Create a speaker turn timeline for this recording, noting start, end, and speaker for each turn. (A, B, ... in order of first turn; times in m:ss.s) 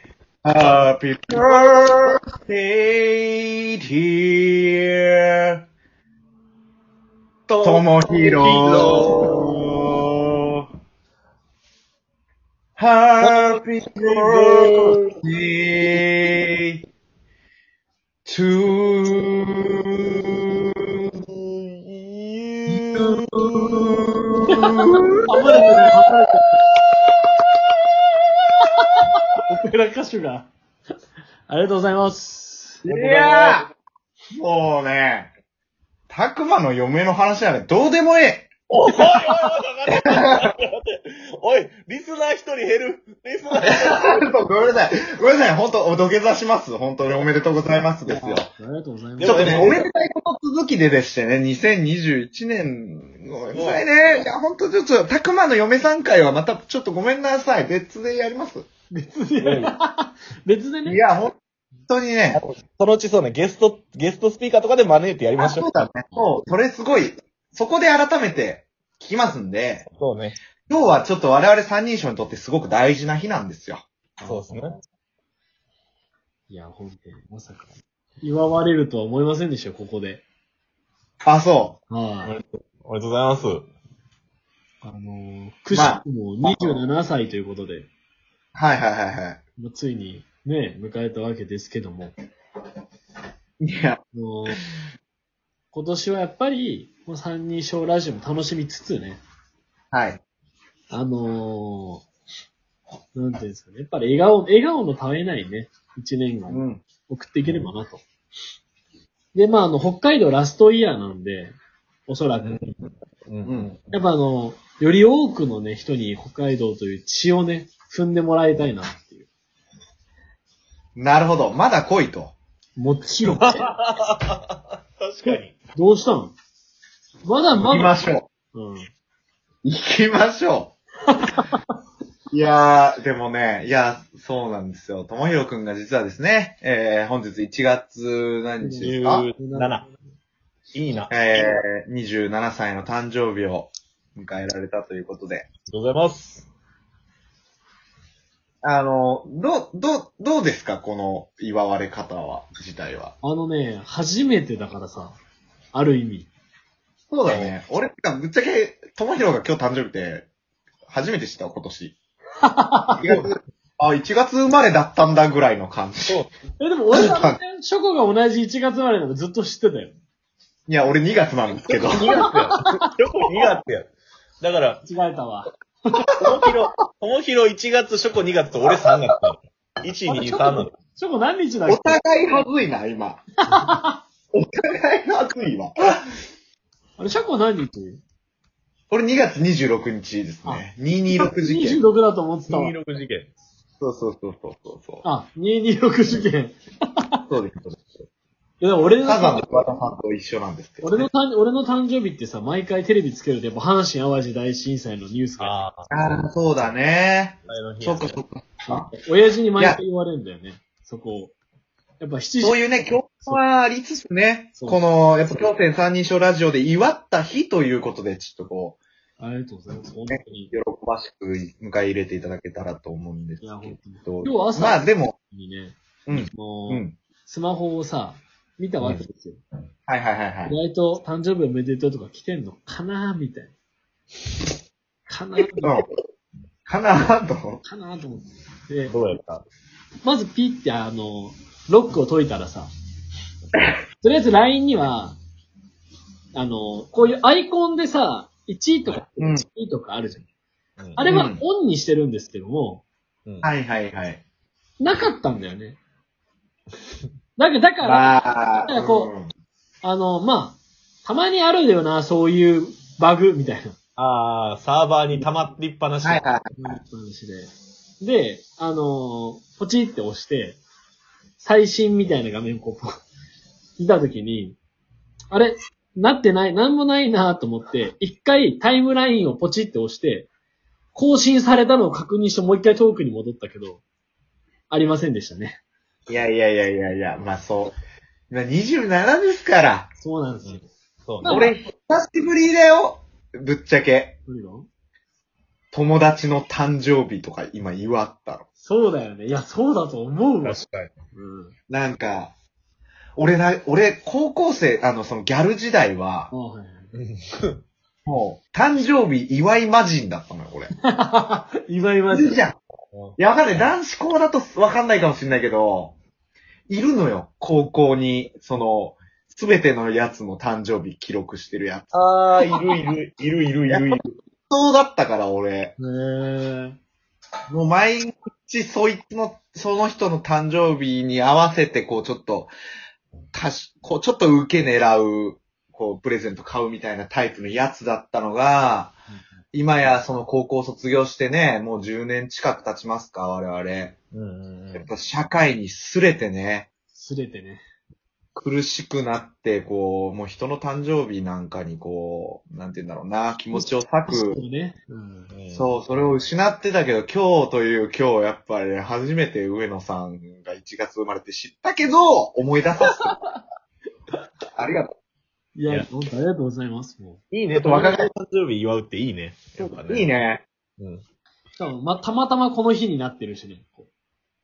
0:00.4-0:05.5 A
0:00.6-0:01.8 B
0:07.5-0:09.5 B
0:07.6-0:09.7 A
0:12.8-0:16.8 A
0:13.2-0:15.1 B
0:18.2-0:20.7 A
0:21.3-0:23.2 B
0:22.7-0:25.9 A
0:24.5-0:24.8 C
0:25.3-0:26.4 C
0:28.8-0:30.5 C
0:31.5-0:32.8 C
0:32.8-0:33.6 A
0:32.8-0:33.6 B
0:34.3-0:35.3 A
0:36.1-0:38.5 A
0:38.7-0:44.0 B
0:39.1-0:39.5 C
0:39.9-0:40.5 A
0:43.5-0:48.5 A
0:48.0-0:49.7 C
0:49.2-0:49.8 B
0:49.2-0:58.6 A
0:53.5-0:53.8 B
0:58.9-1:01.0 C
0:59.4-0:59.8 B
1:00.8-1:01.3 A
1:01.9-1:02.4 A
1:02.3-1:05.7 B
1:05.4-1:09.8 A
1:06.1-1:06.4 C
1:09.8-1:10.4 B
1:10.7-1:13.8 A
1:14.2-1:14.8 C
1:14.2-1:14.7 B
1:16.5-1:20.2 C
1:21.2-1:21.8 A
1:21.9-1:22.3 C
1:22.2-1:23.7 B
1:24.8-1:27.9 C
1:25.7-1:26.8 A
1:28.5-1:29.4 A
1:29.6-1:32.1 C
1:33.6-1:34.0 A
1:34.1-1:34.6 C
1:35.7-1:39.2 C
1:39.9-1:40.2 A
1:40.9-1:42.0 C
1:43.1-1:48.0 C
1:46.5-1:46.8 A
1:47.4-1:47.7 B
1:49.3-1:51.5 C
1:52.1-1:52.7 C
1:53.3-1:53.9 B
1:53.4-1:53.7 A
1:53.9-1:59.3 C
2:01.0-2:02.3 A
2:02.8-2:03.6 C
2:03.2-2:05.6 B
2:05.2-2:06.4 C
2:07.2-2:07.9 C
2:07.6-2:08.3 A
2:08.5-2:08.9 C
2:09.6-2:10.8 A
2:11.2-2:11.6 C
2:12.3-2:19.3 A
2:18.6-2:19.9 C
2:18.8-2:19.8 B
2:20.7-2:21.3 B
2:21.1-2:25.5 A
2:25.7-2:26.5 B
2:28.6-2:33.1 A
2:33.2-2:35.2 C
2:35.7-2:36.3 C
2:37.1-2:40.3 A
2:37.2-2:37.5 B
2:40.9-2:42.0 A
2:42.4-2:43.2 C
2:42.9-2:46.2 A
2:46.6-2:49.9 C
2:46.9-2:47.4 A
2:50.7-2:52.2 A
2:51.6-2:53.9 B
2:52.0-2:52.6 C
2:54.4-2:54.8 B
2:54.8-2:56.3 C
2:56.2-3:00.7 B
3:00.1-3:02.4 C
3:01.6-3:03.2 A
3:03.4-3:04.0 C
3:04.3-3:06.1 A
3:07.0-3:08.0 C
3:08.9-3:11.8 A
3:10.4-3:12.8 C
3:12.5-3:13.3 B
3:13.8-3:15.0 A
3:15.0-3:16.6 C
3:17.3-3:17.9 A
3:18.6-3:19.6 C
3:19.0-3:21.1 A
3:20.8-3:25.6 C
3:25.4-3:25.9 B
3:25.9-3:28.9 A
3:27.4-3:28.2 B
3:28.6-3:31.3 C
3:32.0-3:33.4 C
3:32.4-3:38.8 A
3:34.5-3:34.8 C
3:39.2-3:40.5 C
3:40.1-3:45.2 A
3:43.4-3:49.4 C
3:46.1-3:47.0 A
3:48.8-3:49.0 B
3:49.9-3:50.6 A
3:50.4-3:53.5 C
3:55.1-3:55.8 C
3:55.6-3:55.9 A
3:56.6-3:57.6 A
3:57.6-3:58.9 C
3:58.9-3:59.4 B
4:00.0-4:02.7 C
4:04.0-4:05.2 C
4:06.3-4:10.2 C
4:09.2-4:09.4 A
4:10.8-4:11.0 B
4:11.0-4:12.8 C
4:11.0-4:11.4 A
4:13.4-4:14.2 A
4:14.8-4:15.8 C
4:17.4-4:19.1 C
4:17.8-4:19.3 A
4:19.8-4:23.8 C
4:24.0-4:26.2 B
4:26.0-4:26.8 A
4:26.6-4:30.6 C
4:31.4-4:32.9 C
4:33.8-4:34.6 C
4:35.3-4:40.3 C
4:40.9-4:43.8 C
4:44.7-4:45.6 C
4:46.1-4:47.8 A
4:48.3-4:49.9 A
4:50.0-4:50.7 C
4:50.4-4:51.4 B
4:51.2-4:51.5 C
4:51.2-4:54.2 A
4:54.3-4:54.7 C
4:55.7-4:58.4 A
4:58.6-5:00.6 C
5:00.4-5:00.9 B
5:01.1-5:01.5 C
5:01.7-5:02.3 A
5:03.2-5:06.3 A
5:06.3-5:06.9 C
5:06.9-5:07.6 B
5:08.0-5:10.7 A
5:10.8-5:12.4 C
5:12.1-5:12.6 A
5:12.9-5:13.7 B
5:13.2-5:16.0 A
5:16.7-5:22.0 A
5:21.9-5:24.1 B
5:23.7-5:25.7 A
5:25.8-5:26.8 C
5:27.5-5:32.5 A
5:33.3-5:39.0 A
5:39.5-5:43.9 A
5:44.1-5:44.9 B
5:44.7-5:46.7 A
5:46.9-5:47.6 C
5:48.4-5:54.4 A
5:53.5-5:55.3 C
5:55.3-5:55.7 B
5:55.5-6:03.0 A
6:02.9-6:03.4 C
6:04.6-6:04.9 A
6:05.6-6:07.2 C
6:07.3-6:10.1 B
6:07.5-6:08.1 A
6:09.6-6:10.4 A
6:11.6-6:13.9 C